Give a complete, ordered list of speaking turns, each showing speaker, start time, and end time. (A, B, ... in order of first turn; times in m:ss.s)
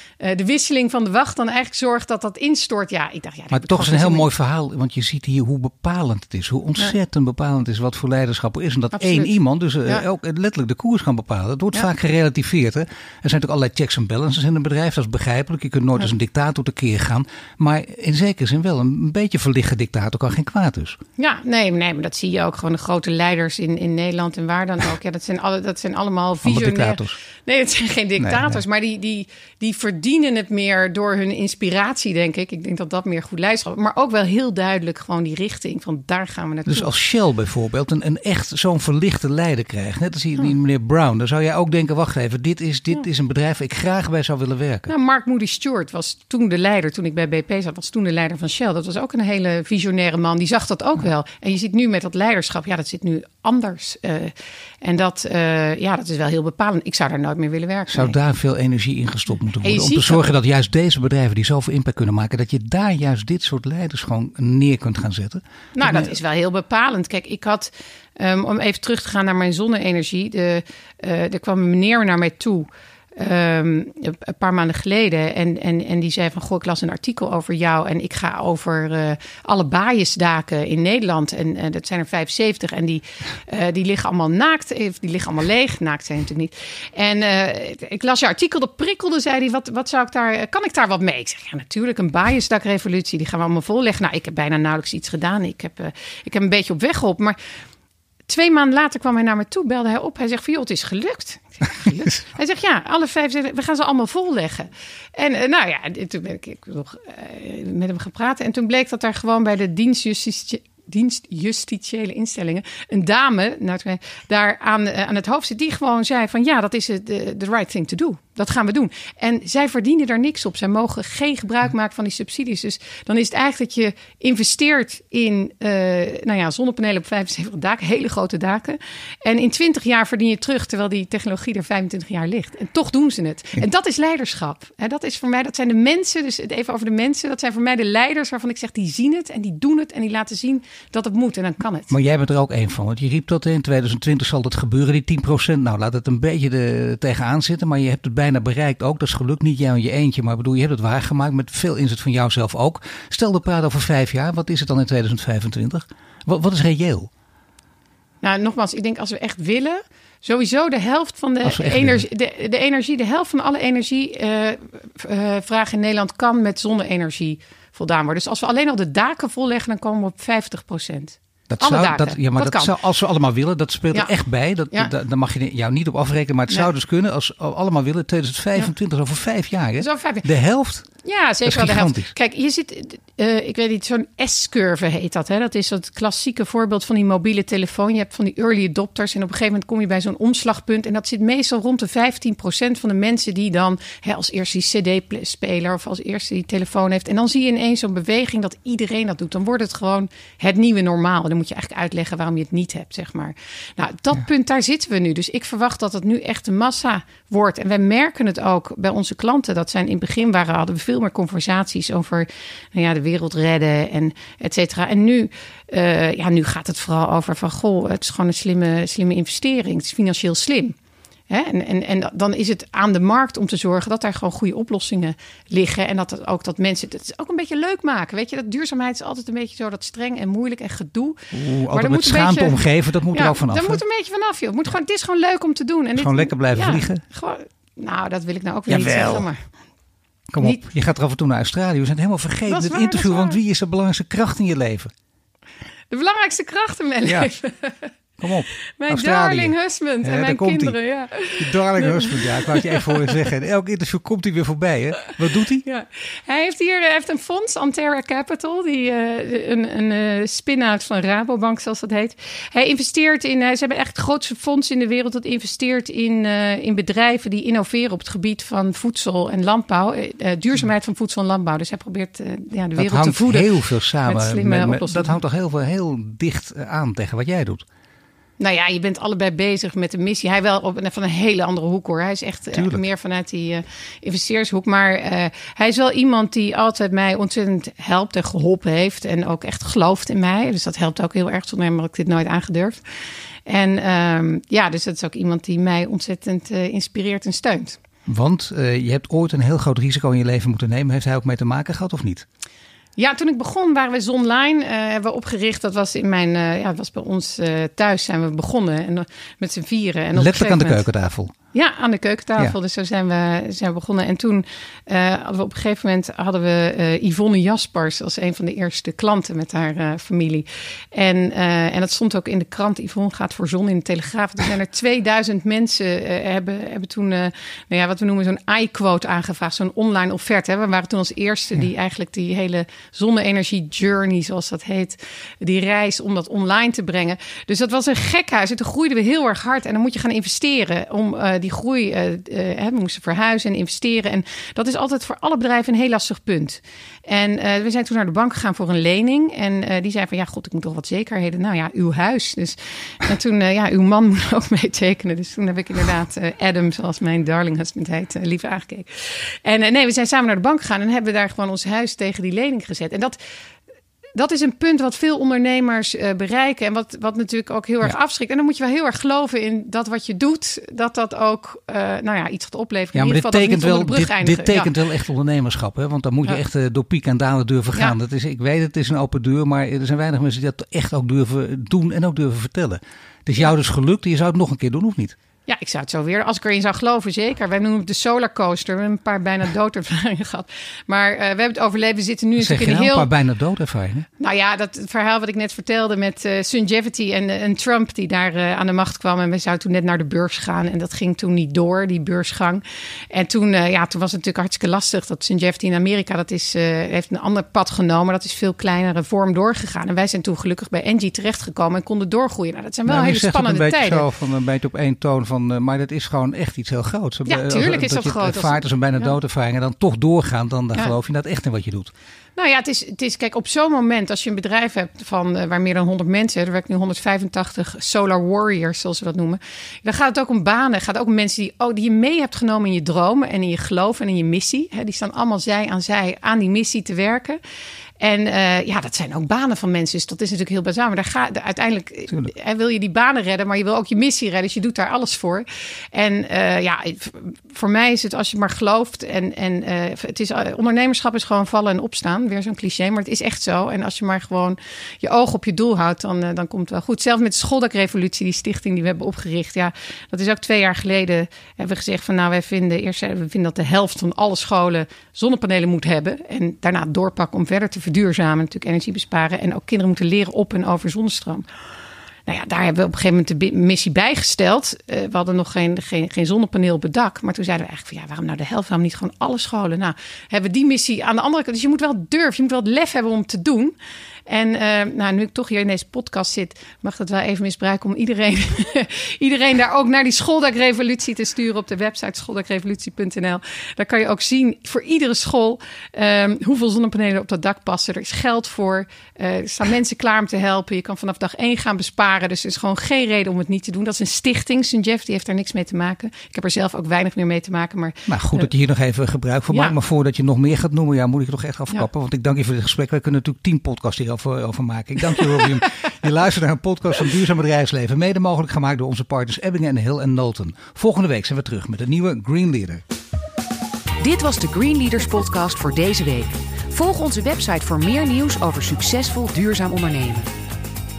0:00.2-0:04.3 A
0:03.5-0:21.0 B
0:09.0-0:09.3 A
0:21.2-0:36.9 A
0:26.4-0:27.2 B
0:28.2-0:28.6 B
0:36.7-0:44.9 B
0:44.9-0:58.2 A
0:57.9-1:06.1 B
0:59.6-1:00.2 A
1:05.8-1:37.4 A
1:38.3-2:21.9 A
2:21.9-2:37.1 B
2:38.2-2:52.7 A
2:41.4-2:42.0 B
2:51.5-3:00.9 B
2:59.8-3:00.3 A
3:01.0-3:40.8 A
3:01.4-3:02.1 B
3:41.3-3:52.6 A
3:51.3-3:53.8 B
3:53.1-3:59.4 A
3:56.0-3:57.0 B
3:58.7-3:59.3 B
4:00.3-4:04.9 B
4:02.5-4:03.4 A
4:05.9-4:07.9 A
4:07.0-4:07.3 B
4:08.2-4:10.8 B
4:08.8-4:13.2 A
4:11.4-4:15.6 B
4:15.6-4:33.5 A
4:32.8-4:37.6 B
4:34.0-4:35.2 A
4:38.4-4:52.8 A
4:42.5-4:42.8 B
4:53.5-4:57.8 A
4:58.0-5:02.2 B
5:03.0-5:10.8 A
5:10.2-5:11.3 B
5:11.5-6:03.2 A
6:04.2-6:14.7 A
6:12.9-6:25.2 B
6:25.5-6:33.1 A
6:32.4-6:34.1 B
6:34.2-6:54.0 A
6:52.9-7:01.9 B
6:57.2-6:59.1 A
7:02.4-7:17.4 A
7:18.0-7:51.5 A
7:52.3-8:03.7 A
8:04.3-8:28.5 A
8:28.1-8:42.8 B
8:44.0-8:50.3 C